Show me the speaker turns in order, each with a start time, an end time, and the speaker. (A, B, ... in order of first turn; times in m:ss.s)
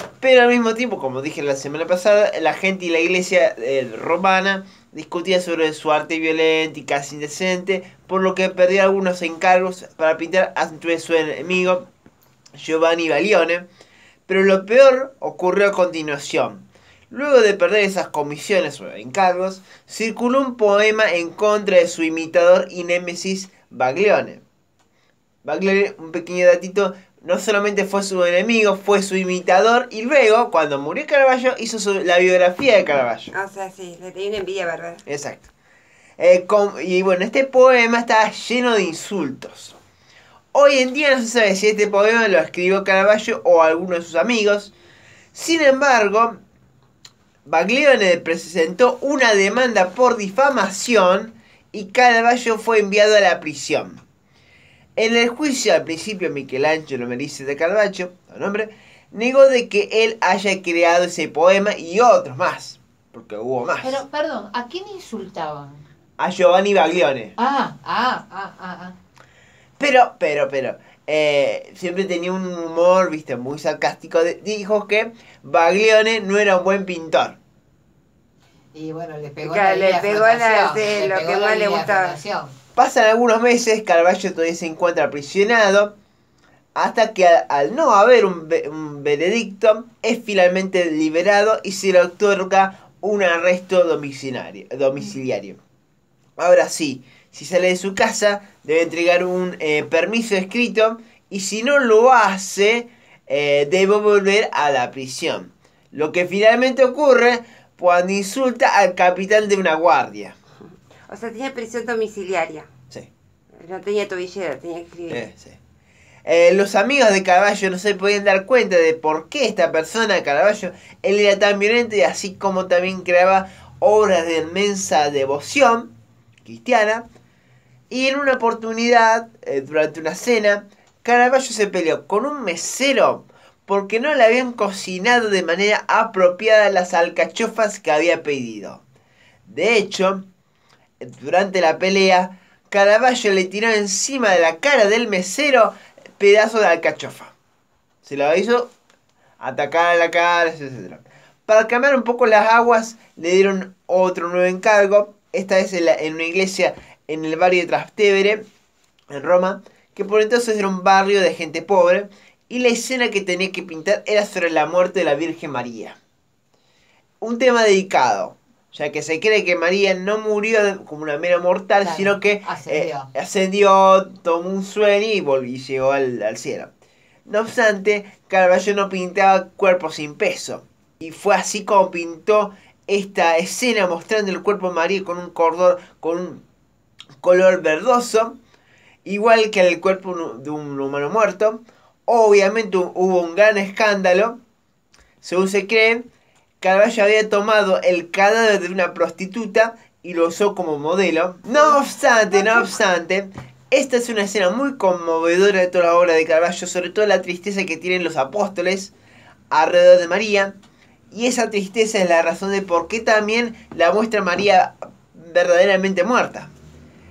0:00.2-0:11.9 A
0:12.6-0:13.7 A
0:14.3-0:24.4 A
0:25.4-0:33.3 A
0:33.3-0:35.0 B
0:35.1-0:35.5 A
0:36.2-0:39.8 A
0:40.5-0:44.7 A
0:45.3-0:46.4 A
0:47.5-0:54.0 A
0:55.0-1:04.0 A
1:03.8-1:05.8 C
1:06.2-1:07.4 A
1:07.4-1:09.0 C
1:09.8-1:17.4 A
1:18.8-1:22.6 C
1:19.4-1:22.2 B
1:22.8-1:25.9 A
1:26.8-1:35.6 A
1:36.4-1:50.4 A
1:51.1-1:52.7 B
1:53.6-1:55.2 B
1:55.1-1:55.6 A
1:56.2-2:05.9 A
2:06.4-2:07.1 A
2:07.9-2:18.8 A
2:19.5-2:20.3 A
2:21.0-2:27.3 A
2:28.0-2:28.7 A
2:29.4-2:38.4 A
2:39.1-2:46.0 A
2:47.2-2:56.7 A
2:51.8-2:53.1 C
2:57.3-3:06.4 A
3:07.2-3:08.4 A
3:09.0-3:14.4 A
3:15.2-3:16.1 A
3:16.6-3:28.9 A
3:29.5-3:30.6 A
3:31.1-3:36.5 A